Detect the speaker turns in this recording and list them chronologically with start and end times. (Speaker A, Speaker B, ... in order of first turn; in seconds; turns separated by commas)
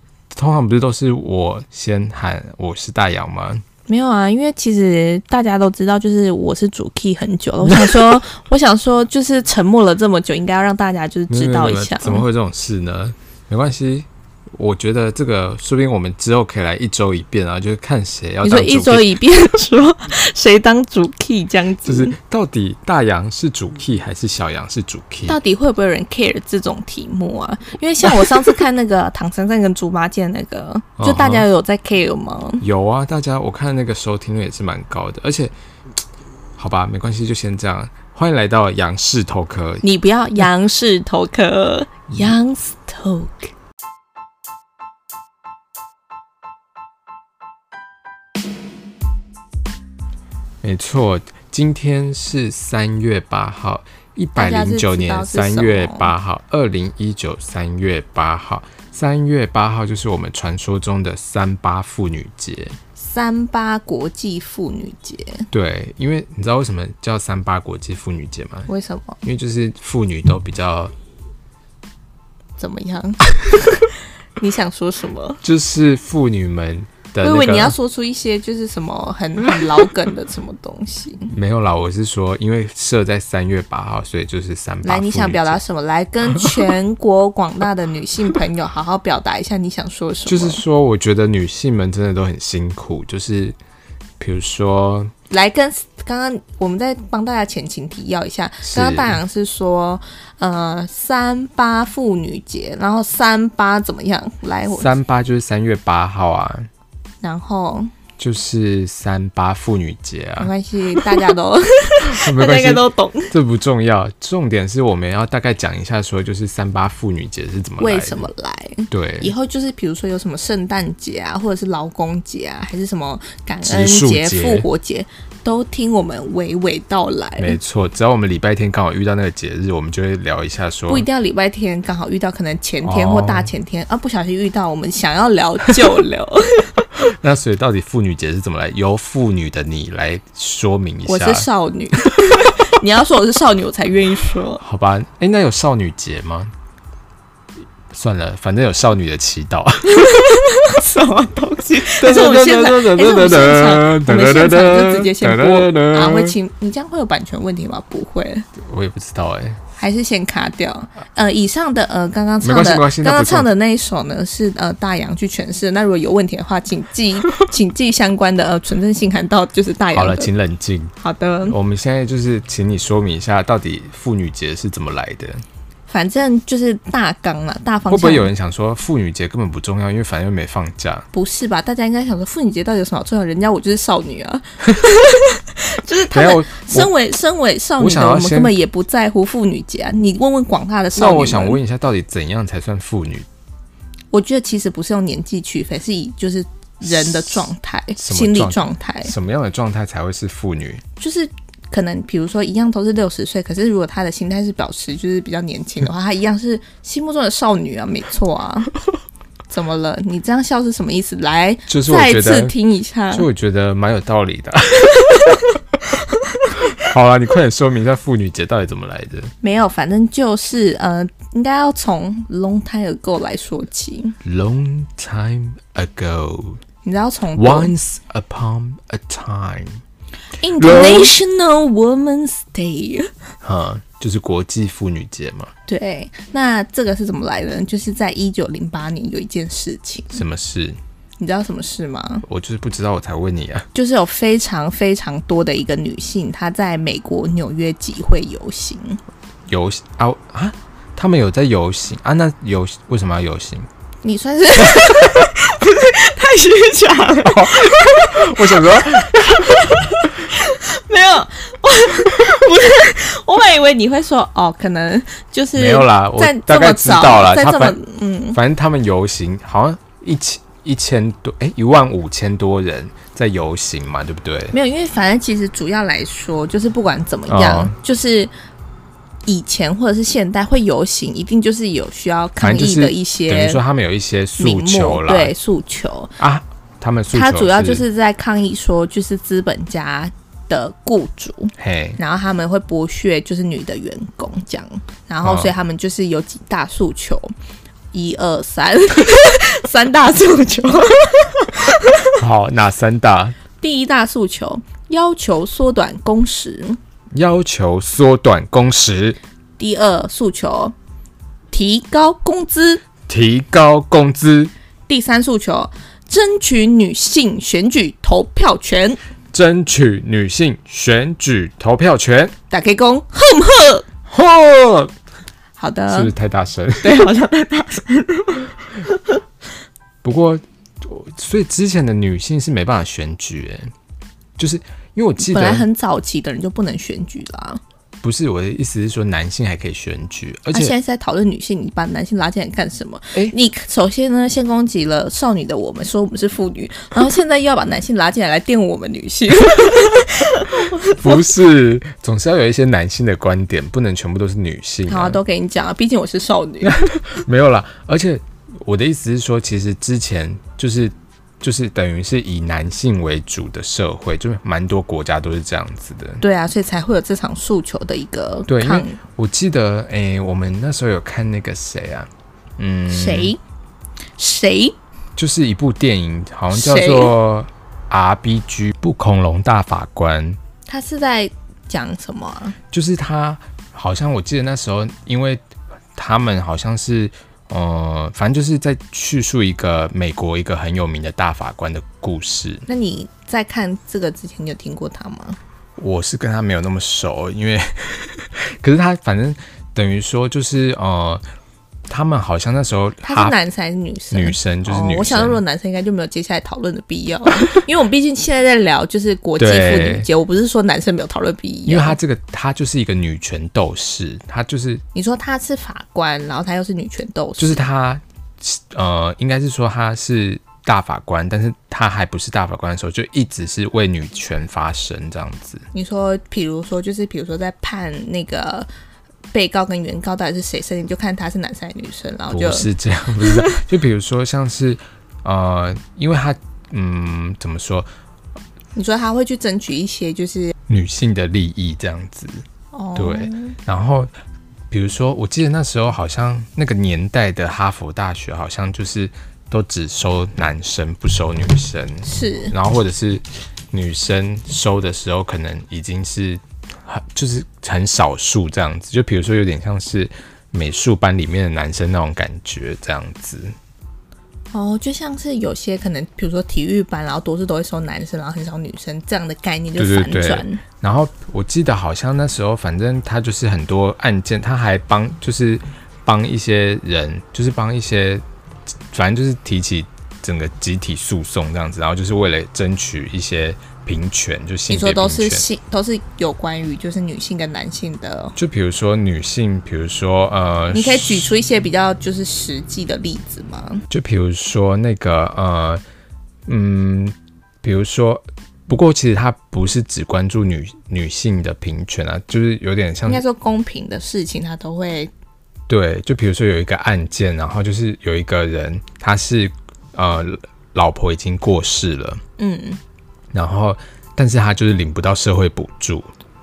Speaker A: 0.3-3.6, Speaker B: 3.9-12.2, Speaker A: 7.7-8.2, Speaker A: 11.3-19.1, Speaker B: 18.4-22.1, Speaker A: 21.8-25.4, Speaker B: 25.3-32.6, Speaker A: 31.0-31.4, Speaker A: 32.6-35.5, Speaker A: 36.6-39.8, Speaker B: 39.8-43.5, Speaker A: 50.6-62.8, Speaker B: 54.4-56.1, Speaker B: 63.0-65.5, Speaker A: 65.5-68.7, Speaker B: 68.7-69.2, Speaker A: 69.2-70.9, Speaker B: 72.6-73.8, Speaker B: 74.4-75.4, Speaker A: 75.4-77.8, Speaker B: 77.2-81.3, Speaker A: 81.3-85.6, Speaker B: 84.8-90.6, Speaker A: 90.2-93.6, Speaker A: 94.2-95.1, Speaker B: 95.3-104.9, Speaker A: 98.6-99.2, Speaker A: 104.7-106.7, Speaker B: 107.2-107.9, Speaker A: 108.2-110.5, Speaker B: 110.4-113.3, Speaker A: 112.0-118.3, Speaker B: 117.8-127.6, Speaker A: 118.9-119.3, Speaker A: 123.6-124.7, Speaker A: 127.4-131.1, Speaker B: 130.9-136.9, Speaker A: 132.8-133.5, Speaker A: 136.9-141.5, Speaker B: 141.1-144.6, Speaker A: 144.6-146.5, Speaker A: 147.9-150.2, Speaker B: 149.9-158.5, Speaker A: 151.9-156.3, Speaker A: 158.6-159.6, Speaker B: 159.8-170.3, Speaker A: 162.4-163.5, Speaker A: 169.9-170.9, Speaker B: 171.0-171.5, Speaker A: 171.4-175.4, Speaker B: 175.9-178.3, Speaker A: 177.9-181.1, Speaker B: 181.1-191.6, Speaker A: 186.1-186.9, Speaker A: 187.8-188.5, Speaker A: 190.9-193.3, Speaker B: 194.1-199.1, Speaker A: 196.8-200.8, Speaker B: 201.0-208.7, Speaker B: 209.5-213.3, Speaker A: 211.7-212.5, Speaker A: 213.1-215.4, Speaker A: 216.7-219.3, Speaker B: 219.4-224.2, Speaker A: 224.2-226.6, Speaker B: 226.8-227.7, Speaker A: 227.3-229.8, Speaker B: 230.4-233.1, Speaker A: 230.6-231.1, Speaker A: 233.4-235.5, Speaker B: 235.7-240.2, Speaker A: 240.1-240.8, Speaker B: 241.2-242.2, Speaker A: 242.2-243.7, Speaker B: 243.7-249.0, Speaker A: 249.5-253.7, Speaker B: 254.0-268.4, Speaker A: 257.2-259.7, Speaker A: 265.6-267.8, Speaker A: 268.3-274.5, Speaker B: 274.5-278.3, Speaker A: 277.3-277.7, Speaker B: 279.2-283.6, Speaker A: 282.4-285.3, Speaker B: 284.4-286.1, Speaker A: 286.2-287.8, Speaker B: 287.1-297.3, Speaker A: 291.6-292.0, Speaker A: 295.2-295.5, Speaker B: 297.9-302.1, Speaker A: 302.1-303.4, Speaker B: 303.6-306.8, Speaker A: 307.1-309.2, Speaker B: 309.6-310.7, Speaker B: 311.5-312.8, Speaker A: 313.1-314.5, Speaker B: 314.9-319.0, Speaker A: 319.3-322.3, Speaker B: 322.5-323.9, Speaker A: 324.1-324.9, Speaker B: 325.6-326.1, Speaker A: 325.9-327.1, Speaker B: 326.8-329.2, Speaker A: 330.0-333.7, Speaker A: 334.4-335.6, Speaker B: 335.2-337.6, Speaker A: 338.0-340.7, Speaker B: 340.5-351.2, Speaker A: 350.8-355.2, Speaker B: 354.9-356.8, Speaker A: 356.6-366.2, Speaker B: 366.2-369.0, Speaker A: 368.5-373.3, Speaker B: 372.9-373.4, Speaker B: 374.2-374.8, Speaker A: 375.2-380.4, Speaker B: 376.5-377.1, Speaker B: 380.7-382.6, Speaker A: 382.7-385.4, Speaker A: 385.9-392.7, Speaker B: 392.7-395.4, Speaker A: 395.8-401.2, Speaker A: 401.9-403.3, Speaker B: 403.0-412.0, Speaker A: 404.1-405.4, Speaker A: 409.4-410.1, Speaker A: 411.7-414.8, Speaker B: 414.9-417.6, Speaker A: 417.4-425.6, Speaker B: 425.7-428.7, Speaker B: 429.3-432.7, Speaker A: 432.3-437.9, Speaker B: 433.2-433.6, Speaker B: 438.7-440.5, Speaker A: 440.7-444.1, Speaker B: 442.7-443.6, Speaker A: 444.7-463.5, Speaker B: 452.1-452.5, Speaker B: 464.5-470.6, Speaker A: 469.8-478.2, Speaker A: 478.9-485.4, Speaker B: 484.7-488.4, Speaker A: 488.4-491.3, Speaker B: 490.7-493.8, Speaker A: 493.9-495.8, Speaker A: 496.4-503.2, Speaker B: 503.1-505.1, Speaker A: 505.7-512.2, Speaker B: 512.4-512.8, Speaker A: 513.3-516.1